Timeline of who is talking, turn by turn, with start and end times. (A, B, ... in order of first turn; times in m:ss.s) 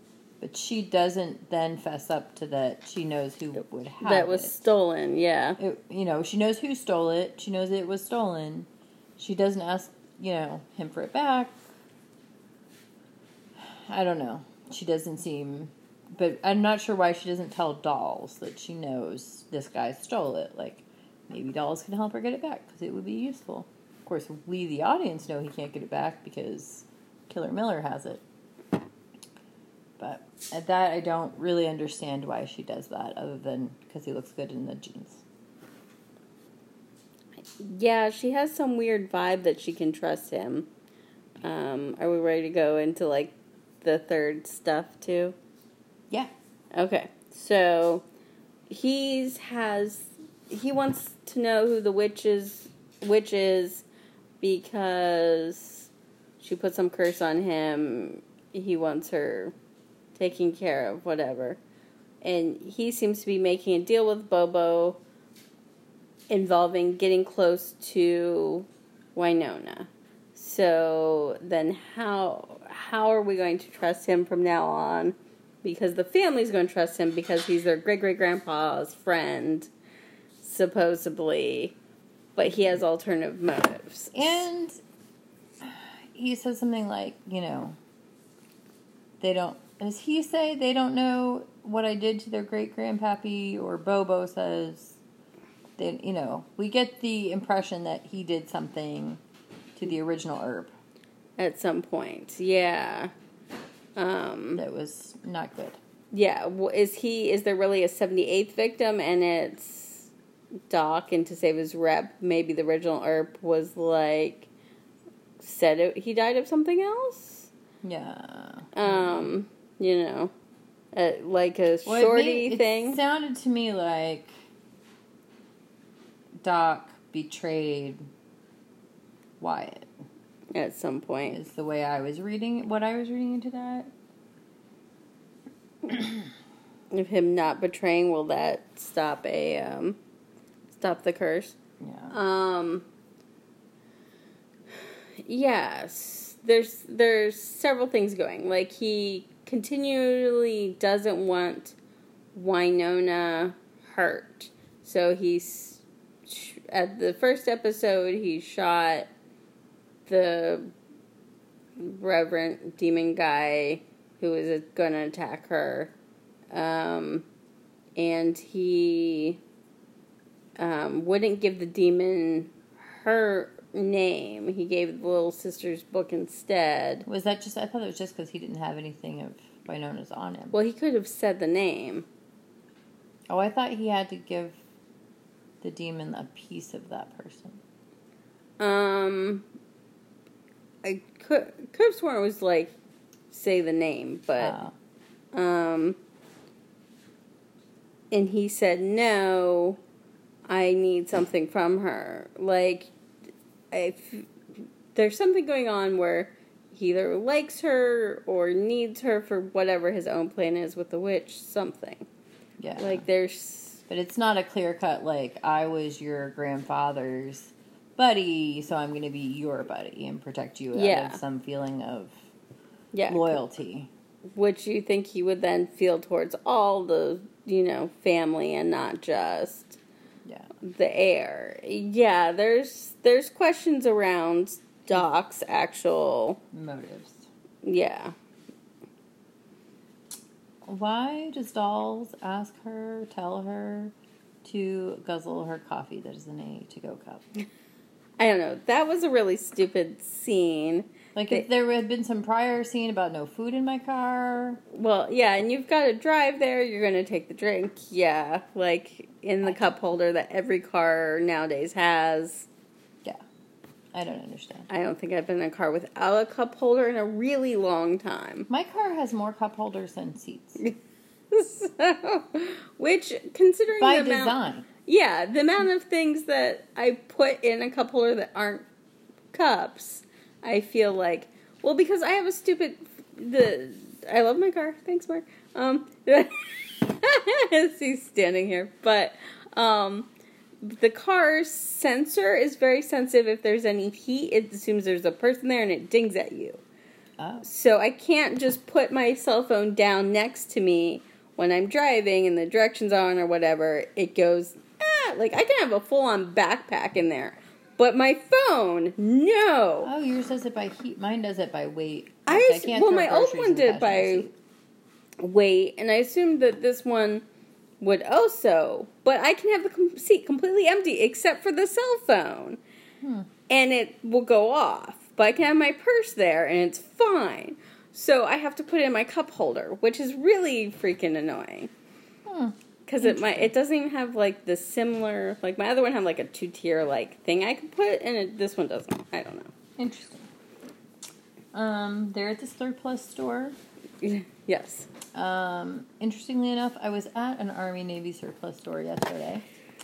0:00.4-0:04.5 A
0:04.0-0:05.6 B
0:05.6-0:11.6 A
0:13.6-0:28.2 A
0:30.0-0:35.2 A
0:37.5-0:40.7 B
0:41.4-0:45.4 B
0:46.7-0:48.0 B
0:48.7-0:53.8 B
0:54.4-0:55.9 B
0:56.4-0:59.5 B
1:00.1-1:01.6 B
1:02.2-1:05.0 B
1:06.3-1:19.7 B
1:20.4-1:21.7 B
1:22.4-1:24.5 B
1:24.1-1:24.8 A
1:25.6-1:27.8 A
1:29.2-1:35.0 A
1:35.8-1:39.2 A
1:39.8-1:40.7 A
1:41.4-1:43.1 B
1:44.0-1:44.6 B
1:44.5-1:45.8 A
1:46.1-1:50.1 B
1:50.7-1:54.5 B
1:55.4-1:57.5 B
1:57.8-1:59.3 A
1:58.7-2:00.3 B
2:00.9-2:03.0 B
2:01.9-2:04.3 A
2:06.4-2:08.0 A
2:09.4-2:09.9 A
2:10.5-2:11.4 B
2:11.2-2:13.9 A
2:16.9-2:20.0 B
2:20.7-2:21.6 B
2:21.8-2:22.2 A
2:22.1-2:22.9 B
2:24.7-2:31.8 B
2:32.3-2:39.1 B
2:40.0-2:40.7 B
2:41.8-2:45.9 B
2:46.5-2:47.2 B
2:47.9-2:49.4 B
2:50.6-2:57.0 B
2:57.0-3:00.6 A
3:00.5-3:02.0 B
3:03.3-3:04.6 A
3:05.6-3:07.6 A
3:08.6-3:09.4 B
3:10.8-3:12.7 B
3:13.3-3:14.5 B
3:14.4-3:14.7 A
3:15.3-3:16.0 B
3:18.1-3:19.8 B
3:20.5-3:22.9 B
3:23.7-3:32.1 B
3:32.6-3:33.0 A
3:32.8-3:33.8 B
3:33.9-3:42.3 A
3:40.7-3:41.2 B
3:42.9-3:43.4 B
3:43.1-3:43.9 A
3:44.3-3:49.8 B
3:50.6-3:56.4 B
3:56.5-3:57.3 A
3:57.6-3:58.1 B
4:00.6-4:07.2 A
4:08.2-4:11.4 B
4:11.1-4:14.6 A
4:14.7-4:22.5 B
4:23.9-4:24.7 A
4:24.7-4:28.5 B
4:28.5-4:30.6 A
4:31.3-4:38.7 B
4:33.8-4:34.7 A
4:39.3-4:50.1 B
4:50.6-4:56.6 B
4:57.2-4:57.4 A
4:57.4-5:09.9 B
5:09.8-5:14.3 A
5:12.3-5:14.3 B
5:15.2-5:17.2 B
5:17.8-5:22.6 B
5:23.0-5:23.3 A
5:23.5-5:31.7 B
5:32.2-5:33.5 A
5:32.9-5:39.5 B
5:39.8-5:40.3 A
5:41.5-5:43.6 A
5:44.0-5:44.9 B
5:45.1-5:49.4 A